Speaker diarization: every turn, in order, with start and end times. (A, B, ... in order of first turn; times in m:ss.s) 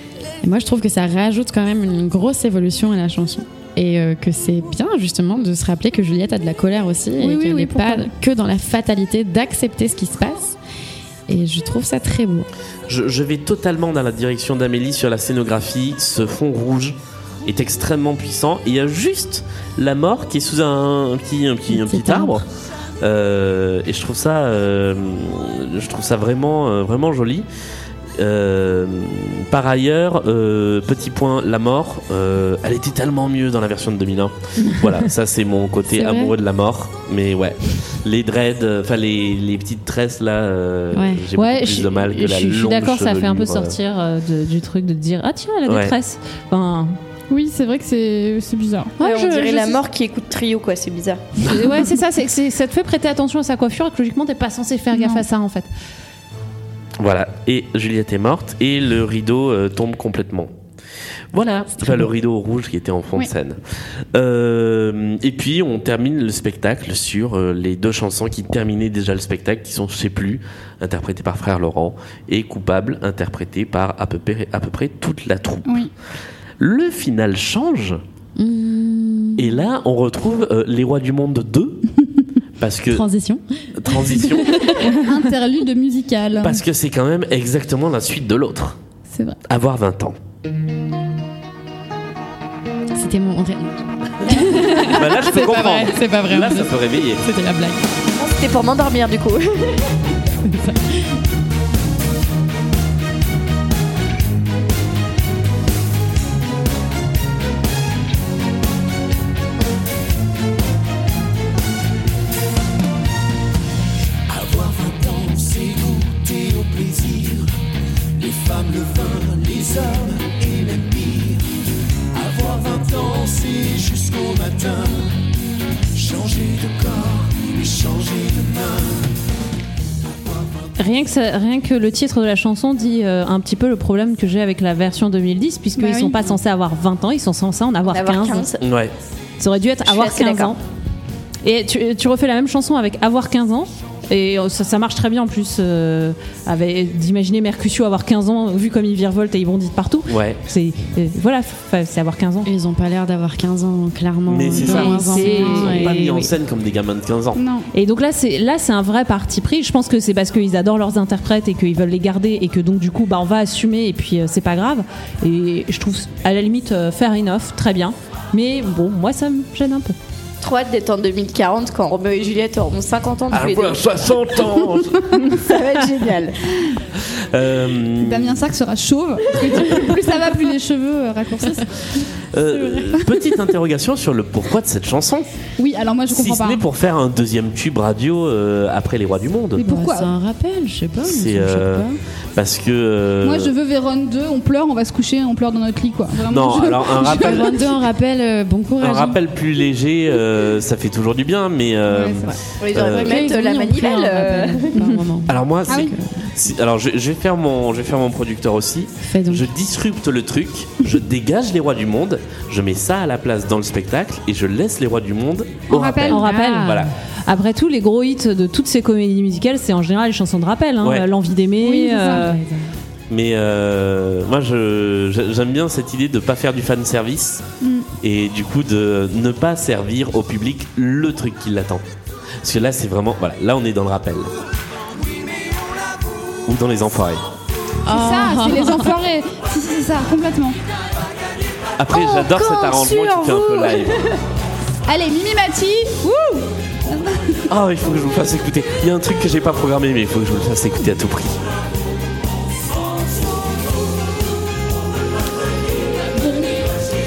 0:00.4-0:10.6 A
0:07.2-0:08.1 B
0:11.3-0:12.5 A
0:12.9-0:22.4 C
0:21.7-0:22.4 A
0:23.0-0:27.4 C
0:28.2-0:43.8 C
0:35.9-0:36.3 A
0:40.9-0:41.2 A
0:41.4-0:47.0 D
0:45.6-0:45.9 C
0:47.3-0:48.9 B
0:49.0-0:49.8 D
0:49.0-0:51.3 E
0:51.4-0:55.7 D
0:54.9-0:55.2 B
0:57.0-1:00.5 C
1:01.3-1:03.6 C
1:01.8-1:02.1 A
1:04.1-1:15.9 C
1:15.6-1:15.9 B
1:16.6-1:18.0 C
1:18.4-1:19.5 A
1:19.4-1:21.8 C
1:22.6-1:23.0 C
1:22.9-1:25.0 A
1:23.8-1:24.8 C
1:24.9-1:26.6 B
1:26.4-1:28.8 C
1:29.1-1:29.4 B
1:29.4-1:30.2 C
1:32.9-1:37.8 A
1:34.4-1:37.2 C
1:38.2-1:39.9 E
1:40.4-1:41.2 A
1:54.3-1:57.5 F
1:58.2-2:01.4 F
2:02.1-2:05.2 F
2:05.9-2:09.1 F
2:10.2-2:10.7 F
2:10.8-2:18.4 D
2:15.8-2:16.3 B
2:17.9-2:18.7 E
2:18.6-2:18.9 C
2:19.4-2:20.6 D
2:19.8-2:20.6 E
2:21.4-2:32.5 D
2:30.1-2:30.4 C
2:32.4-2:36.0 A
2:34.3-2:37.4 C
2:34.6-2:36.3 D
2:34.6-2:35.5 B
2:37.3-2:37.7 B
2:37.7-2:49.9 D
2:50.4-2:53.8 E
2:53.3-2:55.2 C
2:55.3-2:56.4 E
2:57.0-2:58.4 C
2:58.0-3:01.7 B
2:59.4-2:59.9 C
3:02.3-3:05.3 C
3:02.5-3:03.0 A
3:05.6-3:06.6 B
3:06.1-3:09.7 C
3:09.6-3:10.1 B
3:09.6-3:12.0 A
3:11.0-3:13.5 C
3:13.2-3:17.6 B
3:16.2-3:17.6 C
3:17.0-3:19.2 A
3:18.8-3:23.2 C
3:21.9-3:22.4 B
3:22.6-3:24.8 E
3:22.8-3:26.3 A
3:25.3-3:36.9 C
3:25.7-3:25.9 B
3:29.0-3:29.5 A
3:35.7-3:36.2 B
3:36.1-3:42.4 D
3:36.1-3:36.9 A
3:40.8-3:41.1 C
3:41.6-3:42.4 B
3:42.0-3:42.7 A
3:43.1-3:47.4 C
3:47.6-3:47.9 B
3:48.0-3:51.8 C
3:52.4-3:54.3 C
3:56.4-3:57.2 C
3:57.8-3:59.0 A
3:57.9-4:00.6 B
4:01.8-4:04.1 C
4:02.5-4:03.8 B
4:04.9-4:07.4 B
4:07.5-4:11.4 C
4:16.2-4:16.5 B